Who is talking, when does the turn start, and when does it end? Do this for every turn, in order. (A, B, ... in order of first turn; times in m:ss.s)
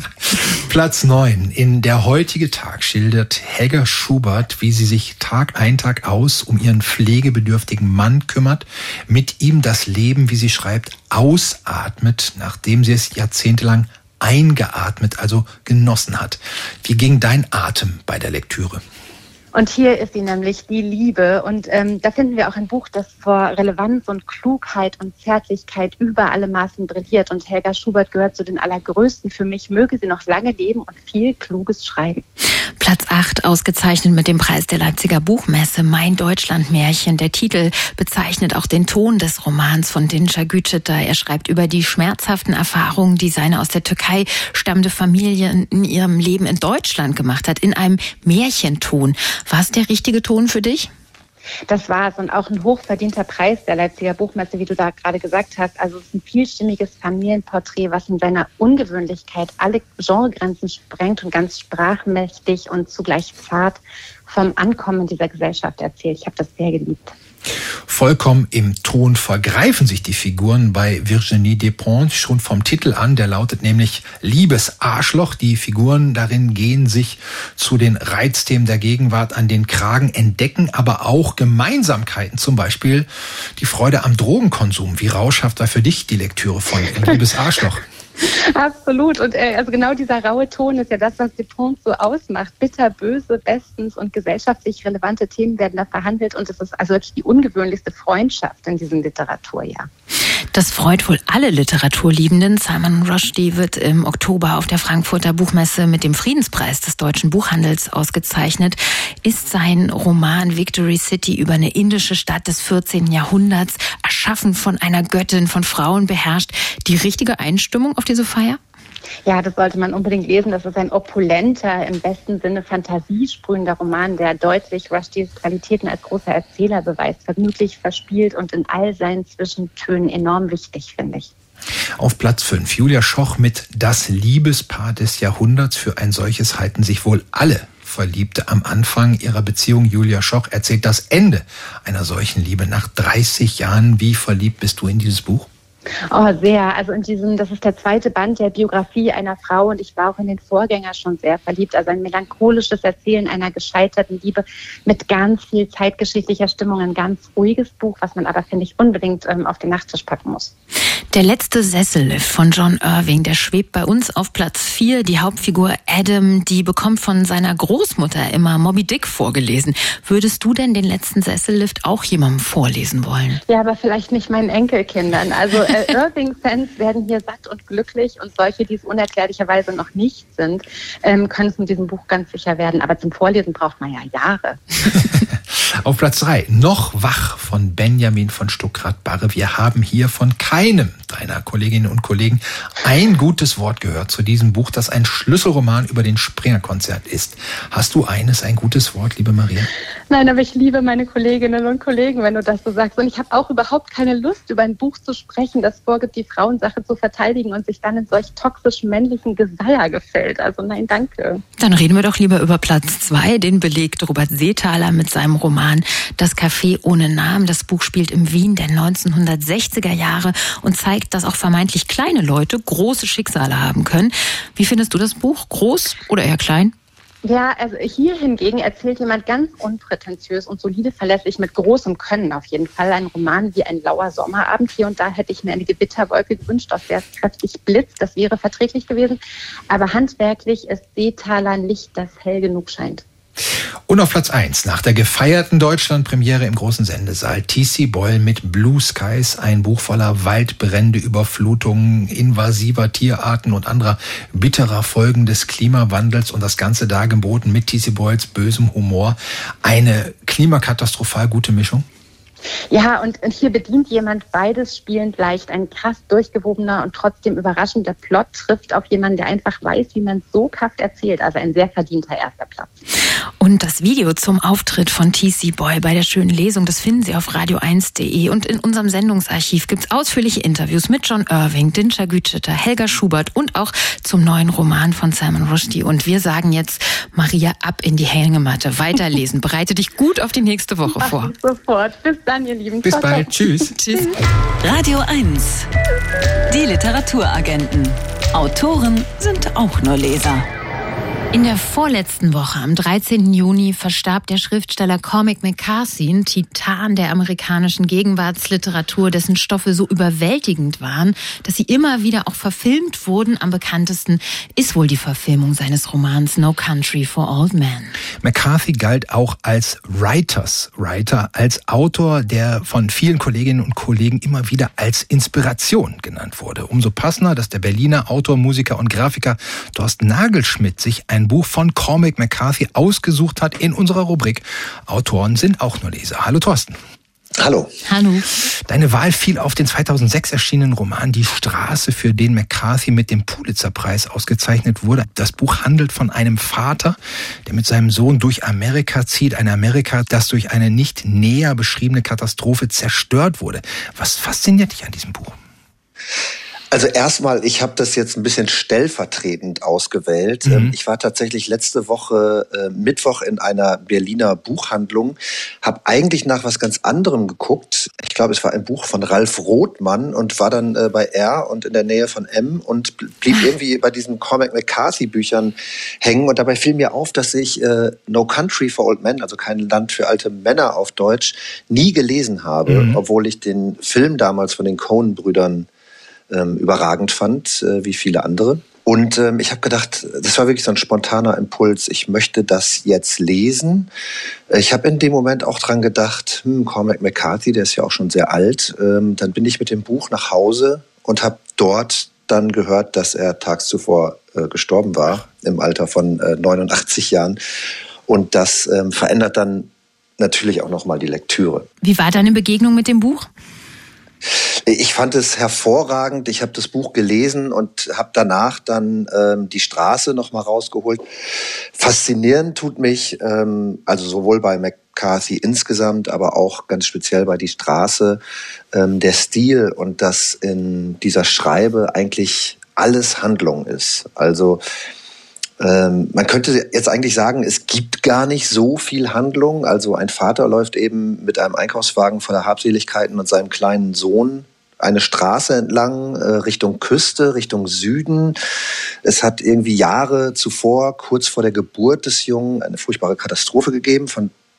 0:00.3-0:18.8 A
0:19.5-0:32.2 B
0:32.8-0:50.9 C
0:51.7-1:07.1 B
1:07.9-1:27.8 A
1:28.2-1:39.9 B
1:40.5-1:58.6 C
1:59.3-2:11.3 B
2:12.0-2:25.5 A
2:26.1-2:40.5 B
2:41.1-2:53.4 C
2:53.5-3:04.7 B
3:05.0-3:19.7 A
3:20.1-3:31.4 B
3:31.6-3:46.7 C
3:47.2-3:59.2 B
3:59.7-4:03.0 B
4:03.9-4:21.8 A
4:22.7-4:32.7 B
4:33.4-4:51.3 C
4:50.9-4:53.4 B
4:52.8-4:53.7 A
4:53.7-4:54.1 C
4:54.6-4:55.7 D
4:56.5-5:00.5 D
5:01.3-5:17.9 C
5:18.2-5:36.8 A
5:37.4-5:37.7 E
5:37.9-5:38.3 C
5:38.7-5:55.4 A
5:56.7-6:25.7 E
6:00.4-6:00.8 A
6:22.7-6:23.0 A
6:26.3-6:33.9 E
6:34.5-6:47.4 E
6:48.1-6:51.7 E
6:51.8-6:53.3 C
6:54.7-7:01.0 E
7:01.8-7:08.2 E
7:08.7-7:14.6 E
7:15.6-7:28.4 E
7:29.0-7:34.3 E